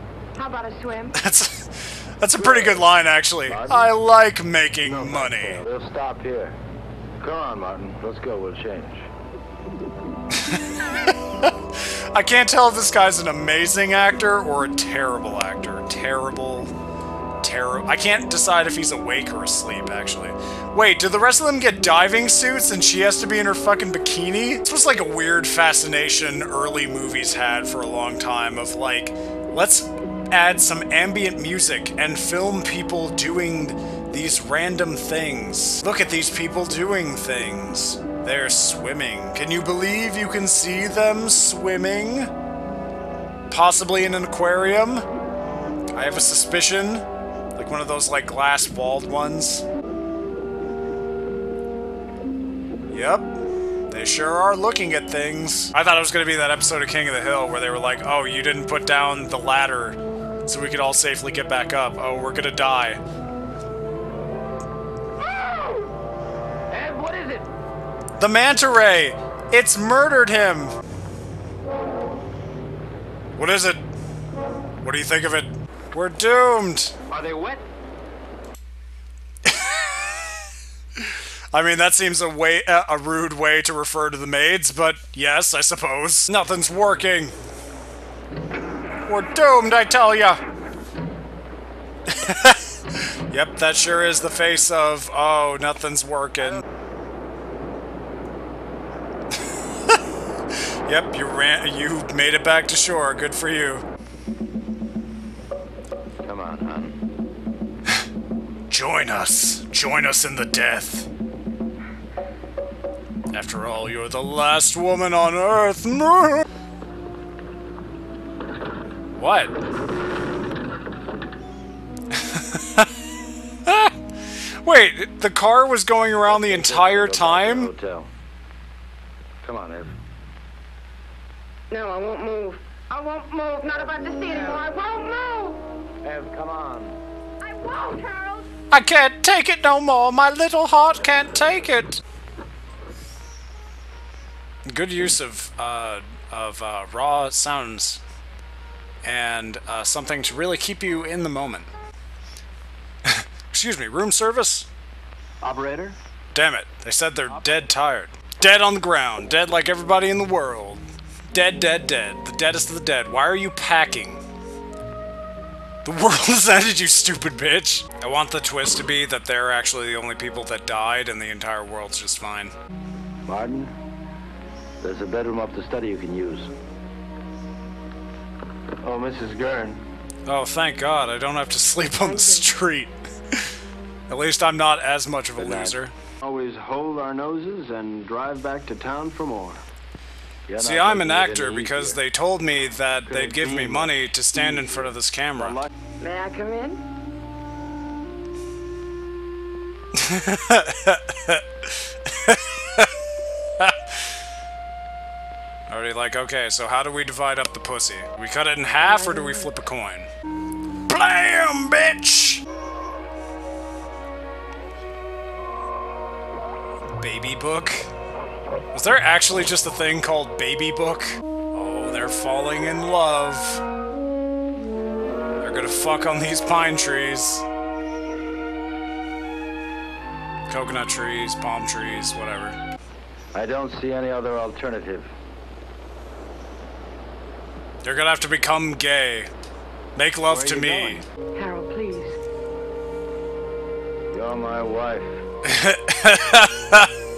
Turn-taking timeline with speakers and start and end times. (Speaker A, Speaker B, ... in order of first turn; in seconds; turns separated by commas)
Speaker A: 0.3-1.2, Speaker B: 1.1-5.6, Speaker C: 2.4-2.8, Speaker C: 3.5-3.9, Speaker C: 4.8-6.5, Speaker C: 7.2-9.1, Speaker B: 10.3-16.7, Speaker B: 17.4-42.3, Speaker B: 43.5-45.0, Speaker B: 45.9-49.6, Speaker B: 52.9-53.4, Speaker B: 53.9-63.0, Speaker C: 65.2-65.8, Speaker C: 66.7-67.4, Speaker B: 68.2-70.8, Speaker B: 73.3-73.8, Speaker B: 74.8-76.9, Speaker D: 77.1-77.7, Speaker B: 79.4-80.2, Speaker B: 81.0-87.3, Speaker B: 89.0-90.4, Speaker B: 92.1-96.6, Speaker B: 100.8-103.8, Speaker C: 106.2-107.0, Speaker B: 108.7-111.1, Speaker B: 113.3-116.5, Speaker B: 119.2-119.5, Speaker B: 122.1-122.9, Speaker B: 123.7-123.9, Speaker B: 124.6-127.7, Speaker C: 126.2-128.1, Speaker C: 129.4-129.9, Speaker A: 131.7-135.6, Speaker C: 133.7-134.6, Speaker C: 136.0-137.0, Speaker A: 137.4-138.5, Speaker B: 138.7-142.0, Speaker B: 144.7-148.0, Speaker B: 149.0-151.7, Speaker B: 153.0-154.7, Speaker D: 155.4-156.0, Speaker B: 156.3-164.2, Speaker D: 157.3-157.7, Speaker B: 165.8-172.5, Speaker C: 173.3-173.7, Speaker C: 174.8-176.5, Speaker D: 178.8-179.8, Speaker B: 180.2-183.4, Speaker A: 182.0-182.6, Speaker B: 184.1-185.9, Speaker C: 185.4-185.8, Speaker D: 186.2-189.6, Speaker C: 190.5-192.0, Speaker B: 190.6-195.6, Speaker D: 193.1-194.0, Speaker D: 195.4-195.7, Speaker A: 196.0-196.8, Speaker B: 199.9-202.9, Speaker B: 205.7-210.1, Speaker A: 208.8-209.4, Speaker B: 210.9-212.4, Speaker B: 217.0-217.9, Speaker B: 218.7-223.6, Speaker B: 225.4-227.4, Speaker B: 230.5-232.6, Speaker C: 233.3-235.1, Speaker B: 237.8-239.3, Speaker B: 239.9-241.0, Speaker D: 240.3-241.0, Speaker A: 241.3-242.2, Speaker C: 244.1-245.2, Speaker B: 245.4-246.9